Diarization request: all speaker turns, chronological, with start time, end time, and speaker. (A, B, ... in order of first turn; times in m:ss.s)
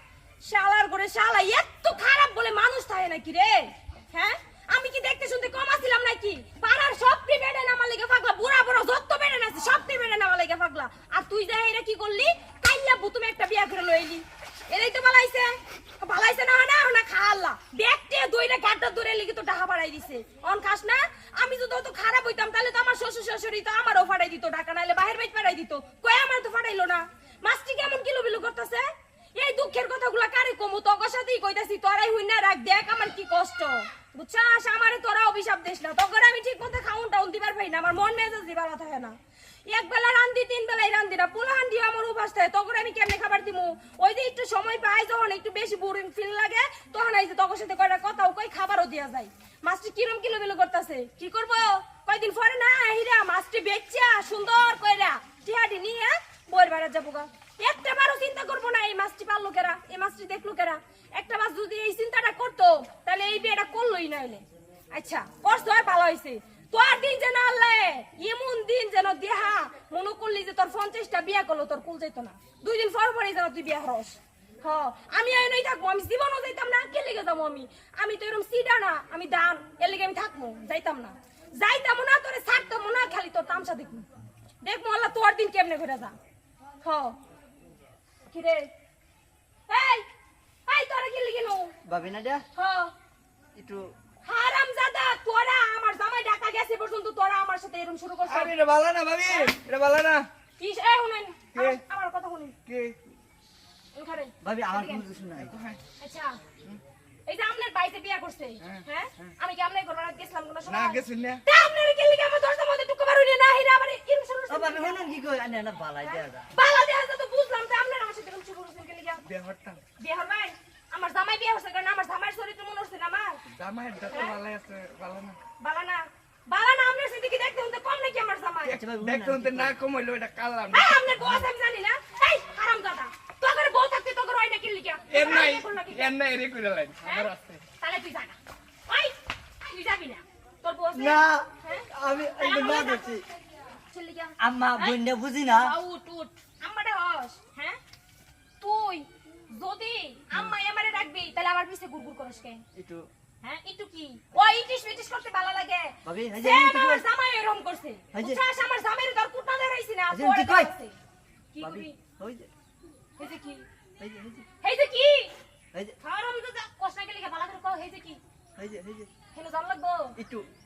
0:00.4-0:39.2 A
0:39.7-1:24.0 A
1:24.6-1:26.2 A
1:26.8-1:27.2 A
1:28.3-1:28.7 A
1:29.7-1:30.0 A
1:30.7-1:31.7 A
1:31.8-1:32.4 B
1:32.6-1:32.9 A
1:33.6-1:33.9 B
1:34.2-1:38.5 A
1:38.3-1:40.2 C
1:39.2-1:39.5 A
1:40.6-1:42.6 A
1:41.5-1:41.8 C
1:42.6-1:43.0 C
1:43.9-1:45.0 A
1:44.4-1:45.5 B
1:45.4-1:45.8 C
1:46.0-1:46.4 A
1:47.3-1:55.1 A
1:50.7-1:51.4 C
1:54.5-1:56.5 B
1:56.0-1:59.2 A
1:59.2-1:59.8 C
2:00.0-2:03.4 A
2:03.5-2:05.4 C
2:04.1-2:04.4 A
2:05.6-2:08.8 A
2:08.7-2:09.8 B
2:08.7-2:11.4 C
2:10.7-2:16.1 A
2:15.1-2:17.6 C
2:17.8-2:18.4 A
2:18.9-2:19.1 A
2:19.6-2:23.2 A
2:20.9-2:23.2 B
2:23.9-2:25.0 A
2:24.4-2:25.7 B
2:25.5-2:27.8 A
2:28.6-2:32.6 A
2:32.7-2:33.1 B
2:33.4-2:41.0 A
2:36.0-2:37.0 B
2:38.1-2:38.4 B
2:40.1-2:40.7 B
2:41.5-2:42.0 A
2:41.6-2:42.5 B
2:43.2-2:43.6 A
2:44.0-2:44.4 B
2:44.6-2:45.3 A
2:46.0-2:48.2 A
2:48.6-2:49.1 B
2:49.3-2:50.2 A
2:50.2-2:50.5 B